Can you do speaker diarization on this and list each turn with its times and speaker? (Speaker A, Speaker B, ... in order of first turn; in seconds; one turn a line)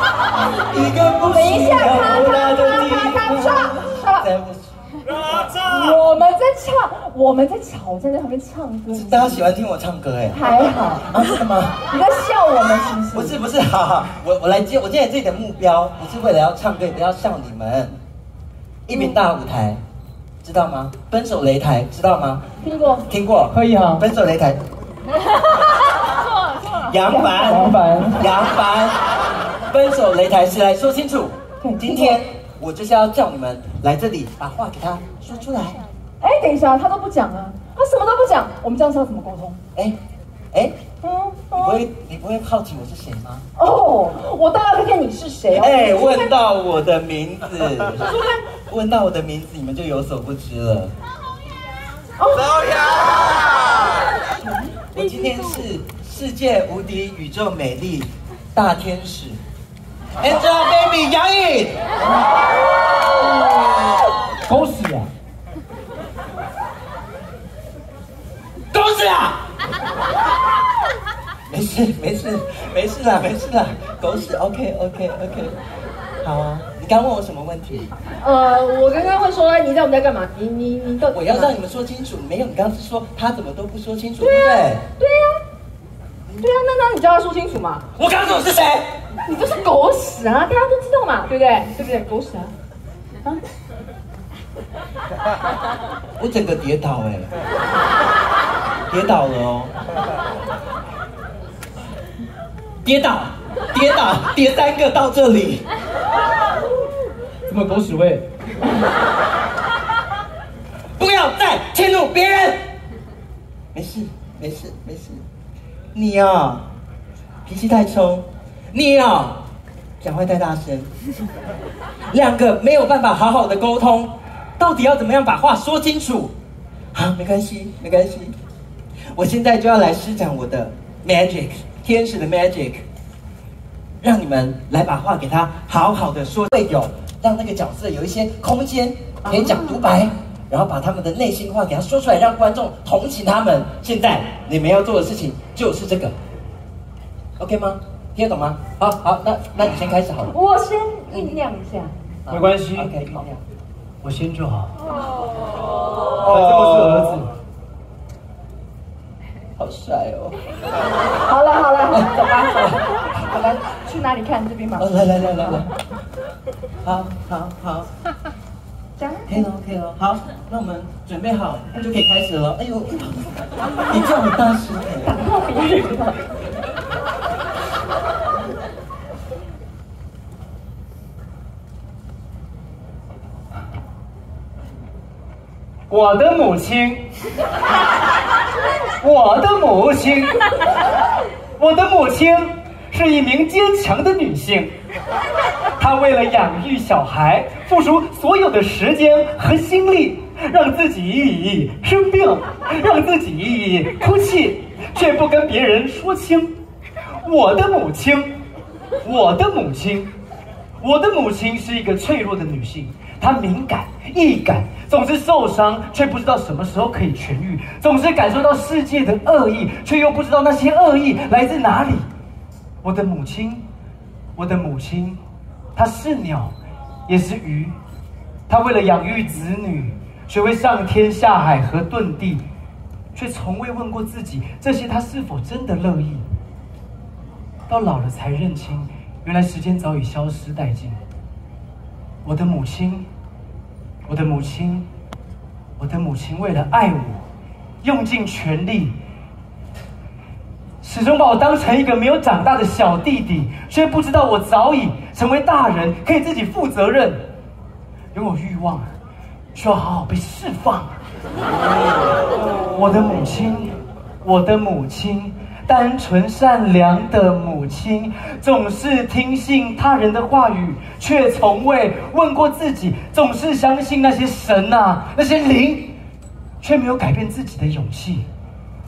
Speaker A: 0.7-6.0
Speaker B: 1.2-4.3
Speaker B: 5.5-9.5
Speaker A: 8.9-11.8
Speaker B: 10.3-11.2
Speaker B: 11.9-13.4
Speaker A: 13.1-18.0
Speaker A: 18.9-19.8
Speaker B: 18.9-19.2
Speaker A: 20.4-22.4
Speaker B: 22.6-23.1
Speaker A: 23.1-24.6
Speaker C: 23.5-24.1
Speaker A: 26.9-29.0
Speaker B: 27.0-28.2
Speaker C: 27.5-28.2
Speaker A: 29.7-35.8
Speaker B: 31.6-32.2
Speaker B: 36.2-39.6
Speaker A: 40.5-40.8
Speaker B: 41.0-41.9
Speaker A: 41.5-43.5
Speaker B: 43.6-46.3
Speaker A: 45.6-50.9
Speaker B: 48.0-48.4
Speaker B: 52.2-52.6
Speaker B: 54.4-55.6
Speaker A: 54.9-59.4
Speaker A: 60.2-61.8
Speaker C: 64.5-65.1
Speaker A: 68.7-69.4
Speaker A: 71.5-75.6
Speaker A: 76.2-77.9
Speaker B: 78.2-81.6
Speaker A: 81.1-84.8
Speaker B: 84.2-85.4
Speaker B: 86.4-87.8
Speaker A: 88.0-88.9
Speaker B: 89.3-92.5
Speaker A: 96.2-97.3
Speaker A: 98.9-99.7
Speaker A: 102.8-105.6
Speaker C: 107.5-108.3
Speaker A: 111.0-112.6
Speaker A: 113.7-115.2
Speaker A: 116.0-116.7
Speaker A: 117.5-119.4
Speaker A: 120.0-120.9
Speaker A: 122.1-126.3
Speaker A: 126.9-128.3
Speaker A: 129.1-132.8
Speaker A: 134.0-146.1
Speaker B: 139.4-139.8
Speaker A: 147.4-150.3
Speaker B: 150.3-151.9
Speaker A: 152.3-153.4
Speaker C: 152.3-153.1
Speaker C: 154.0-154.8
Speaker A: 156.2-157.2
Speaker C: 156.2-157.3
Speaker A: 159.6-160.4
Speaker B: 161.2-165.6
Speaker A: 161.9-162.8
Speaker A: 164.8-165.7
Speaker A: 166.8-167.9
Speaker B: 169.0-169.5
Speaker A: 169.3-173.3
Speaker A: 173.9-175.1
Speaker B: 175.0-176.3
Speaker C: 185.9-187.1
Speaker C: 189.0-190.5
Speaker C: 191.6-194.8
Speaker C: 195.8-206.6
Speaker C: 207.2-208.4
Speaker C: 209.0-210.1
Speaker C: 210.8-222.1
Speaker C: 222.8-223.7
Speaker C: 224.4-225.2
Speaker C: 225.8-226.5
Speaker C: 227.1-227.8
Speaker C: 228.5-232.4
Speaker C: 233.1-236.3
Speaker C: 237.7-241.0
Speaker C: 242.2-243.1
Speaker C: 244.1-244.9
Speaker C: 245.8-247.2
Speaker C: 247.8-249.0
Speaker C: 250.8-257.3
Speaker C: 258.1-258.9
Speaker C: 259.5-261.0
Speaker C: 262.7-276.0
Speaker C: 276.6-278.3